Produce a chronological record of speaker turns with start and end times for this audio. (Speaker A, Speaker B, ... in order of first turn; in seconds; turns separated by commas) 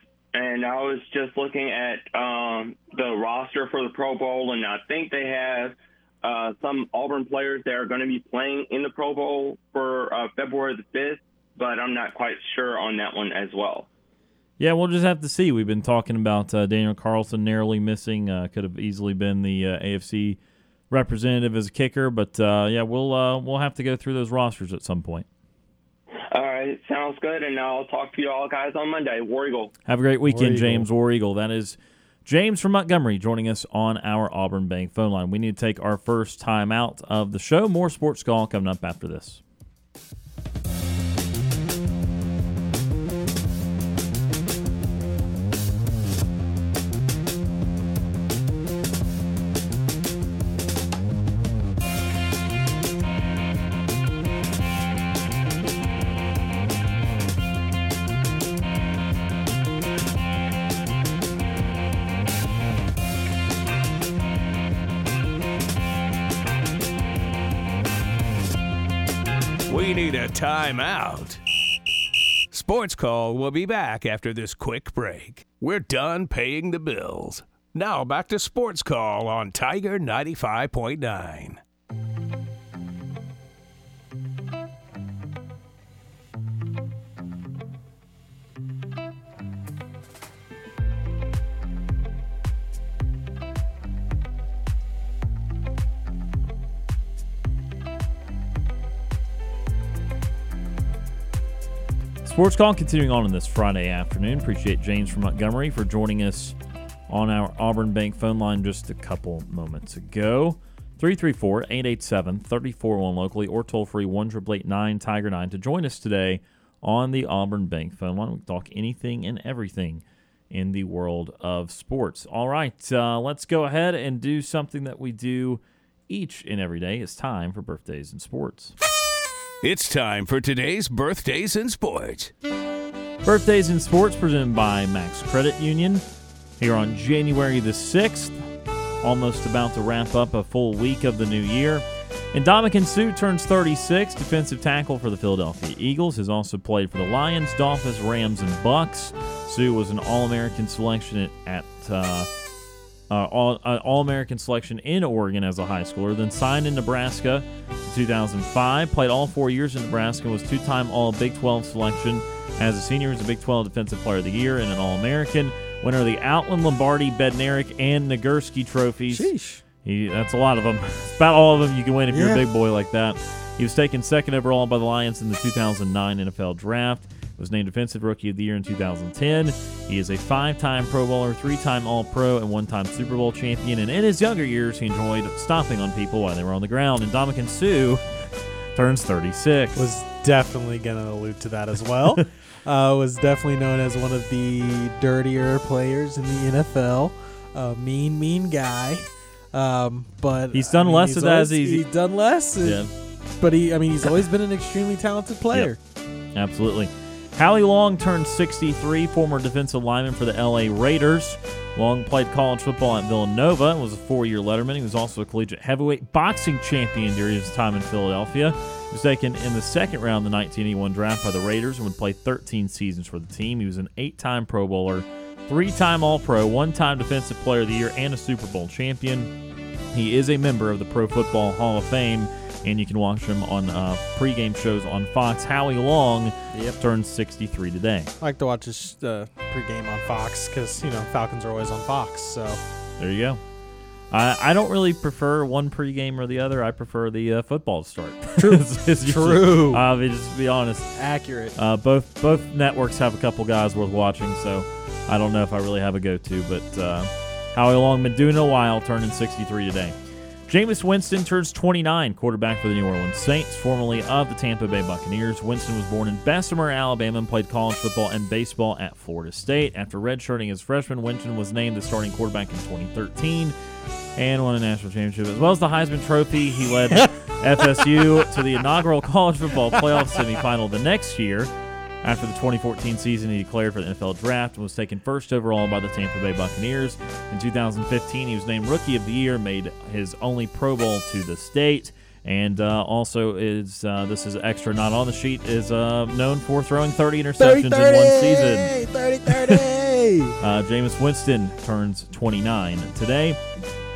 Speaker A: 0.3-13.9, Speaker B: 14.6-20.4, Speaker B: 20.9-25.3, Speaker A: 26.3-29.7, Speaker B: 29.9-39.4, Speaker C: 30.2-30.9, Speaker D: 69.7-71.4, Speaker D: 72.5-81.6, Speaker B: 102.2-106.6, Speaker B: 107.1-128.7, Speaker D: 129.6-132.3, Speaker B: 133.2-136.0, Speaker B: 136.6-138.4, Speaker B: 139.0-152.3, Speaker B: 153.1-169.3, Speaker C: 169.1-169.6, Speaker B: 169.8-188.0, Speaker C: 172.1-172.4, Speaker B: 188.7-189.8, Speaker C: 189.7-205.8, Speaker B: 200.5-201.9, Speaker B: 202.6-202.9, Speaker B: 206.3-229.3, Speaker B: 229.9-238.1, Speaker C: 236.5-236.8, Speaker C: 238.2-242.6, Speaker B: 243.0-243.4, Speaker B: 244.1-250.9, Speaker C: 248.4-249.8, Speaker C: 250.9-251.6, Speaker B: 251.5-259.9, Speaker B: 260.5-273.5, Speaker B: 274.1-281.5, Speaker C: 276.9-278.6, Speaker C: 279.7-280.2, Speaker B: 282.0-298.7, Speaker C: 297.4-300.3, Speaker B: 299.3-299.8, Speaker B: 300.4-303.4